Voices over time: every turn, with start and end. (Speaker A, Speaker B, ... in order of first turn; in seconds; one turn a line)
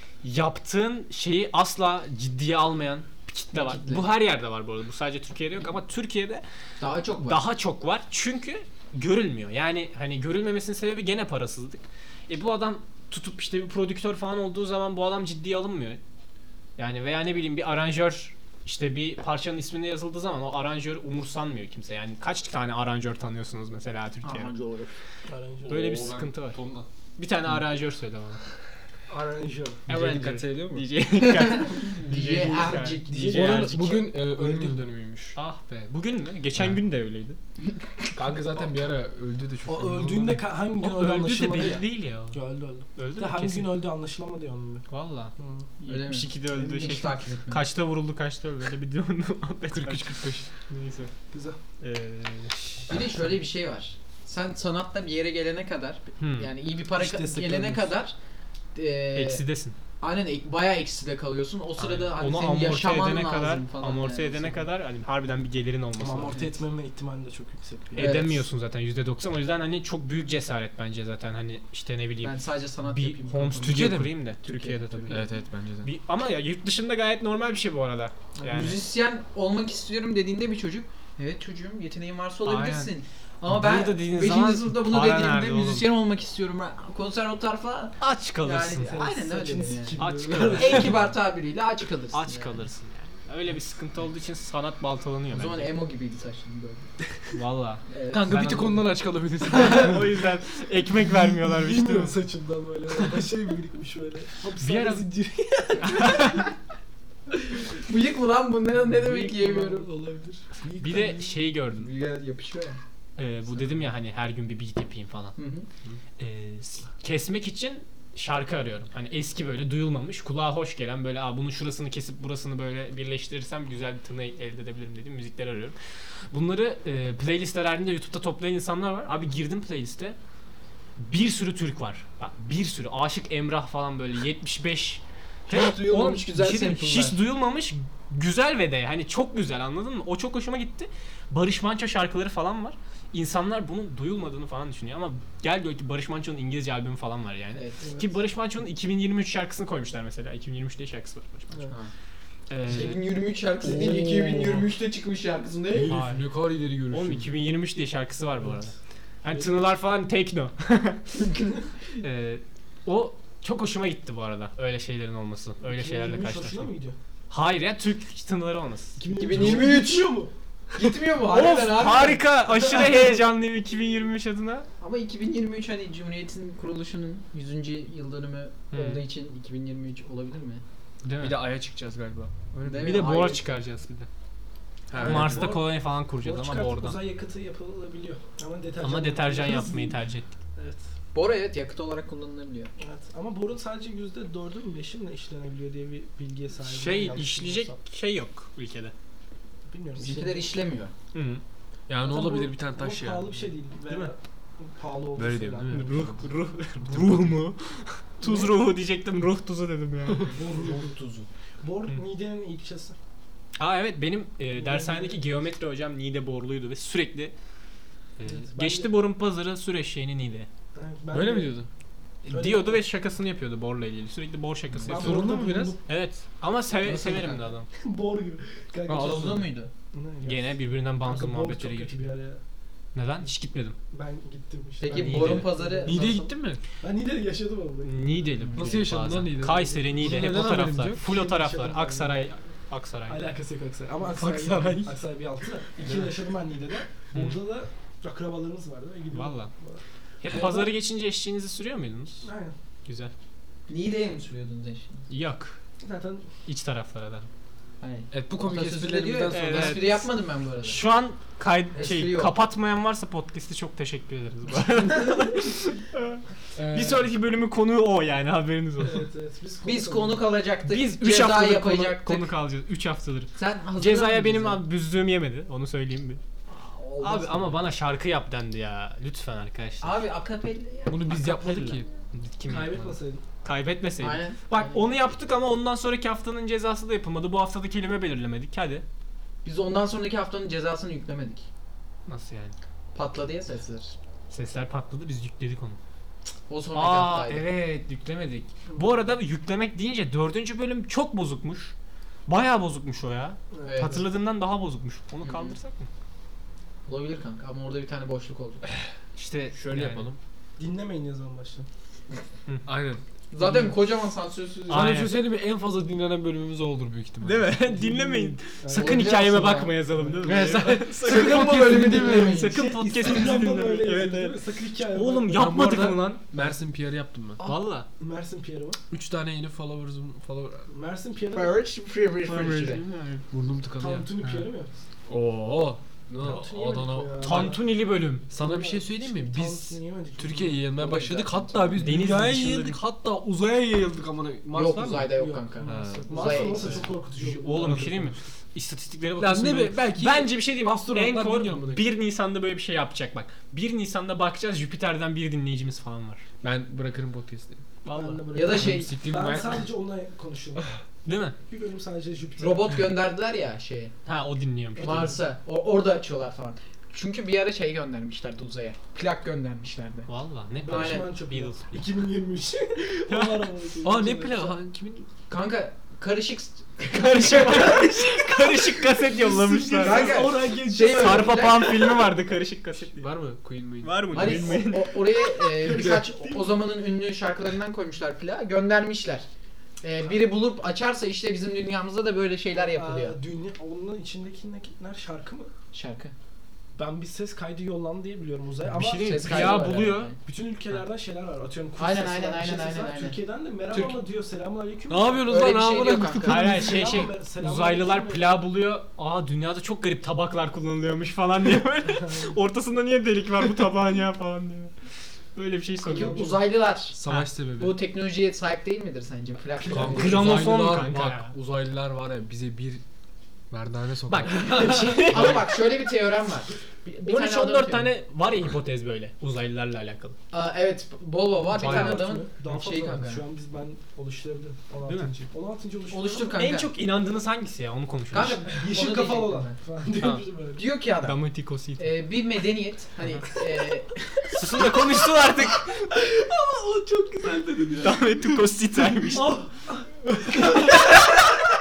Speaker A: 0.2-6.4
Speaker B: 3.5-4.1
Speaker B: 6.8-7.4
Speaker A: 7.2-16.0
Speaker A: 16.8-24.5
Speaker B: 24.2-25.0
Speaker C: 25.3-25.9
Speaker D: 25.7-26.9
Speaker A: 25.7-26.6
Speaker A: 27.2-28.4
Speaker C: 29.1-29.8
Speaker D: 29.9-30.9
Speaker A: 29.9-33.8
Speaker B: 31.2-33.8
Speaker C: 32.4-34.7
Speaker D: 33.2-35.4
Speaker A: 35.4-37.4
Speaker D: 38.2-40.5
Speaker C: 39.7-44.9
Speaker A: 40.8-42.4
Speaker A: 43.0-43.8
Speaker A: 44.9-51.1
Speaker C: 45.4-45.7
Speaker B: 45.9-47.6
Speaker C: 46.6-47.0
Speaker D: 49.7-50.5
Speaker C: 51.3-51.6
Speaker A: 51.8-52.9
Speaker B: 52.9-58.1
Speaker A: 56.2-56.5
Speaker C: 57.0-57.9
Speaker B: 58.8-59.4
Speaker A: 59.1-59.8
Speaker B: 60.0-64.7
Speaker A: 61.8-66.5
Speaker C: 66.0-68.2
Speaker A: 67.9-75.3
Speaker B: 68.0-68.5
Speaker B: 72.2-75.3
Speaker D: 73.6-74.2
Speaker D: 75.1-75.9
Speaker A: 75.8-78.8
Speaker C: 78.4-78.8
Speaker B: 78.5-92.6
Speaker A: 82.5-82.9
Speaker A: 83.5-85.9
Speaker A: 88.0-88.9
Speaker C: 88.7-91.0
Speaker A: 90.0-91.1
Speaker A: 92.1-95.7
Speaker B: 95.3-96.9
Speaker A: 97.3-98.8
Speaker B: 97.9-98.8
Speaker D: 98.1-100.1
Speaker A: 99.5-102.2
Speaker C: 99.6-99.9
Speaker C: 101.1-106.5
Speaker A: 104.6-105.1
Speaker A: 105.8-106.5
Speaker B: 107.7-109.9
Speaker C: 108.8-111.3
Speaker A: 110.8-111.9
Speaker B: 111.8-112.8
Speaker A: 113.2-115.4
Speaker B: 115.4-115.7
Speaker A: 116.2-125.8
Speaker A: 126.3-130.2
Speaker A: 131.0-151.7
Speaker B: 135.5-137.2
Speaker B: 147.6-147.8
Speaker A: 152.5-153.0
Speaker B: 152.6-156.0
Speaker C: 153.7-154.6
Speaker D: 153.7-154.6
Speaker D: 155.7-157.3
Speaker A: 155.9-156.2
Speaker A: 156.9-161.2
Speaker A: 162.0-166.7
Speaker C: 165.7-167.0
Speaker A: 167.3-169.6
Speaker C: 169.0-170.3
Speaker B: 169.1-170.2
Speaker B: 170.8-172.2
Speaker A: 171.2-174.7
Speaker C: 172.5-173.2
Speaker B: 174.8-180.6
Speaker A: 178.7-179.0
Speaker A: 181.0-181.4
Speaker D: 181.2-183.1
Speaker B: 182.7-183.5
Speaker A: 182.7-184.1
Speaker D: 184.9-185.6
Speaker C: 185.0-190.0
Speaker A: 185.0-187.0
Speaker A: 188.8-190.3
Speaker C: 190.6-190.8
Speaker B: 191.1-192.7
Speaker C: 192.8-197.8
Speaker A: 196.6-198.9
Speaker C: 199.7-200.5
Speaker B: 200.0-200.9
Speaker A: 201.1-201.4
Speaker D: 201.9-203.5
Speaker C: 202.0-206.1
Speaker A: 203.9-204.1
Speaker D: 205.2-206.3
Speaker A: 205.7-210.3
Speaker D: 206.8-207.4
Speaker C: 208.2-208.6
Speaker C: 210.2-210.9
Speaker B: 210.7-211.3
Speaker C: 211.6-213.0
Speaker A: 213.6-217.3
Speaker C: 214.5-215.3
Speaker A: 218.2-220.5
Speaker C: 218.2-218.9
Speaker C: 220.8-221.6
Speaker D: 221.1-221.7
Speaker A: 222.2-227.7
Speaker C: 222.3-222.8
Speaker C: 224.9-225.8
Speaker D: 224.9-225.8
Speaker B: 226.8-227.4
Speaker C: 227.8-232.4
Speaker D: 228.9-229.5
Speaker B: 228.9-229.7
Speaker A: 230.2-231.9
Speaker A: 232.9-233.8
Speaker C: 233.9-238.3
Speaker B: 234.8-236.2
Speaker A: 234.9-235.5
Speaker D: 235.8-236.6
Speaker A: 237.8-243.3
Speaker D: 238.5-241.0
Speaker C: 241.0-242.2
Speaker C: 243.1-250.7
Speaker A: 244.1-245.0
Speaker A: 247.1-247.4
Speaker A: 249.1-249.5
Speaker A: 250.2-252.3
Speaker C: 252.2-252.6
Speaker A: 252.9-253.1
Speaker B: 253.7-255.1
Speaker A: 255.1-255.6
Speaker C: 255.8-256.2
Speaker A: 256.5-257.3
Speaker B: 257.8-260.8
Speaker D: 258.1-259.9
Speaker A: 259.3-260.1
Speaker A: 260.6-269.1
Speaker B: 261.8-262.4
Speaker D: 266.6-267.1
Speaker C: 268.8-270.2
Speaker B: 269.6-272.3
Speaker A: 270.7-276.2
Speaker B: 273.4-274.6
Speaker B: 276.5-277.6
Speaker A: 277.0-280.0
Speaker B: 279.8-281.1
Speaker D: 280.9-281.9
Speaker A: 281.1-288.8
Speaker C: 282.5-283.2
Speaker B: 284.0-284.8
Speaker B: 289.4-291.5
Speaker A: 292.1-292.6
Speaker B: 292.9-293.9
Speaker A: 294.3-295.8
Speaker B: 296.5-297.5
Speaker A: 296.8-301.7
Speaker A: 302.3-305.9
Speaker C: 303.5-304.0
Speaker B: 303.7-304.1
Speaker B: 305.2-305.6
Speaker B: 306.9-308.6
Speaker A: 309.2-310.1
Speaker D: 309.5-310.2
Speaker C: 310.6-311.7
Speaker D: 312.7-313.7
Speaker B: 313.3-315.1
Speaker A: 314.7-315.2
Speaker D: 314.7-317.6
Speaker A: 317.2-326.2
Speaker C: 317.7-319.2
Speaker B: 318.7-319.8
Speaker C: 320.0-325.5
Speaker D: 320.2-322.5
Speaker B: 321.0-322.6
Speaker D: 325.3-327.4
Speaker A: 327.4-327.9
Speaker C: 327.4-328.8
Speaker D: 328.9-330.7
Speaker C: 330.7-331.6
Speaker B: 331.3-332.8
Speaker A: 332.2-333.2
Speaker D: 333.3-334.1
Speaker C: 333.8-334.7
Speaker A: 334.2-334.5
Speaker D: 335.1-337.6
Speaker C: 336.2-337.8
Speaker A: 337.2-338.3
Speaker D: 338.3-346.9
Speaker C: 338.3-341.0
Speaker B: 340.8-341.8
Speaker A: 341.8-342.8
Speaker B: 344.5-346.9
Speaker C: 345.2-348.1
Speaker A: 346.6-356.2
Speaker D: 349.2-351.9
Speaker D: 356.4-357.6
Speaker A: 357.8-358.2
Speaker C: 357.9-360.7
Speaker B: 358.3-358.9
Speaker D: 358.5-359.7
Speaker A: 361.1-361.4
Speaker C: 361.5-362.9
Speaker B: 362.4-363.9
Speaker A: 364.1-365.2
Speaker C: 364.8-365.2
Speaker B: 364.8-370.1
Speaker A: 370.1-371.6
Speaker C: 370.6-374.6
Speaker B: 370.6-371.1
Speaker A: 373.1-373.5
Speaker D: 373.8-375.1
Speaker B: 375.3-378.0
Speaker A: 376.8-383.1
Speaker C: 377.5-381.7
Speaker B: 379.8-381.9
Speaker D: 383.0-384.6
Speaker A: 383.8-385.0
Speaker B: 384.1-389.3
Speaker C: 385.4-386.5
Speaker D: 385.7-386.0
Speaker B: 389.8-393.2
Speaker C: 392.6-395.5
Speaker B: 395.7-396.1
Speaker C: 396.8-405.5
Speaker A: 398.7-400.1
Speaker B: 398.9-400.2
Speaker B: 401.8-403.2
Speaker D: 404.9-406.9
Speaker B: 405.3-406.6
Speaker A: 406.2-414.7
Speaker C: 406.3-408.2
Speaker C: 411.9-412.3
Speaker A: 415.4-416.4
Speaker B: 415.9-417.0
Speaker C: 415.9-416.4
Speaker D: 416.9-417.8
Speaker B: 417.6-420.5
Speaker D: 419.7-422.8
Speaker C: 419.7-420.0
Speaker A: 419.7-421.3
Speaker D: 423.5-425.4
Speaker A: 424.1-425.5
Speaker B: 424.5-427.9
Speaker A: 427.0-430.2
Speaker B: 430.3-433.2
Speaker C: 431.6-436.4
Speaker D: 431.6-432.1
Speaker A: 434.9-435.1
Speaker B: 435.9-436.7
Speaker A: 436.3-438.5
Speaker B: 438.1-439.6
Speaker C: 438.1-440.6
Speaker A: 440.0-440.2
Speaker B: 440.6-441.2
Speaker A: 441.0-441.9
Speaker B: 441.8-444.3
Speaker A: 444.3-445.8
Speaker C: 445.5-448.2
Speaker A: 447.8-449.4
Speaker C: 449.0-451.2
Speaker A: 450.5-450.9